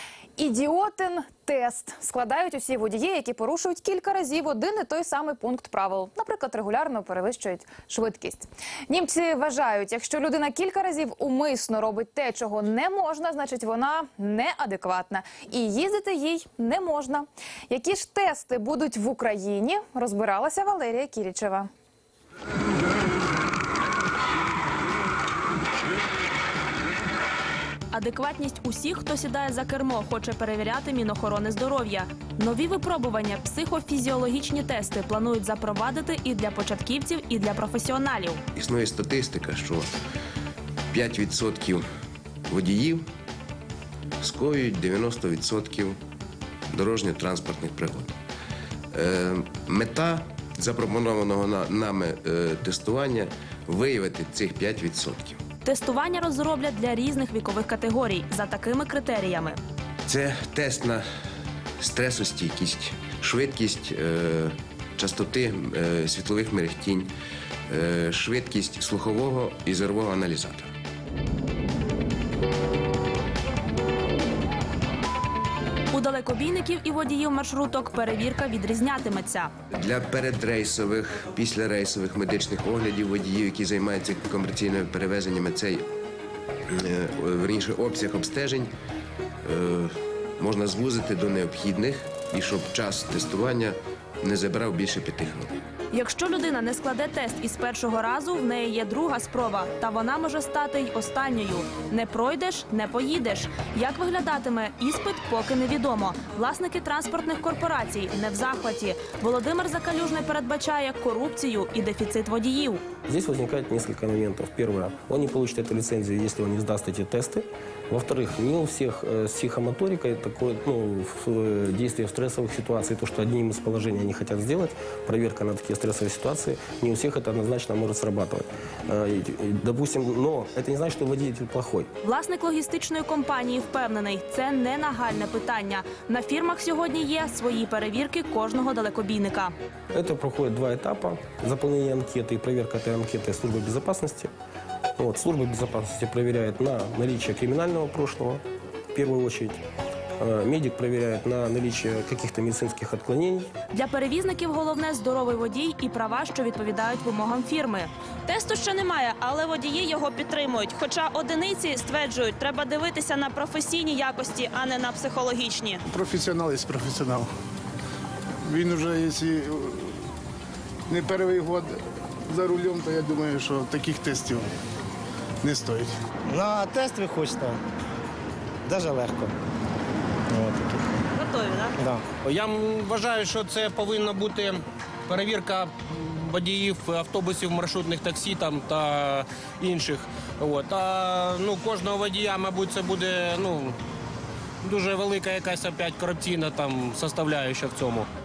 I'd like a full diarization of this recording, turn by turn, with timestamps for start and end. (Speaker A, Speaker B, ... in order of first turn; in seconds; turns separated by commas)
Speaker A: 0.4-21.7, Speaker B: 27.9-38.4, Speaker C: 38.5-39.9, Speaker C: 40.9-41.8, Speaker C: 42.5-43.0, Speaker C: 44.2-46.0, Speaker C: 46.7-48.1, Speaker C: 48.9-55.4, Speaker B: 55.6-59.6, Speaker C: 60.0-61.0, Speaker C: 61.8-67.1, Speaker C: 67.7-70.7, Speaker B: 75.9-79.5, Speaker C: 79.7-85.8, Speaker C: 86.7-88.7, Speaker C: 89.4-95.5, Speaker B: 95.9-112.8, Speaker D: 113.0-131.9, Speaker B: 132.0-139.5, Speaker D: 139.9-144.3, Speaker D: 145.0-148.4, Speaker D: 148.9-149.6, Speaker D: 150.2-153.5, Speaker B: 153.7-165.8, Speaker E: 165.9-167.3, Speaker E: 168.4-169.9, Speaker E: 170.9-171.8, Speaker E: 172.3-174.5, Speaker E: 175.4-175.9, Speaker F: 176.3-177.6, Speaker F: 178.7-179.3, Speaker F: 180.4-180.7, Speaker B: 181.2-181.7, Speaker G: 182.2-193.8, Speaker G: 194.6-198.1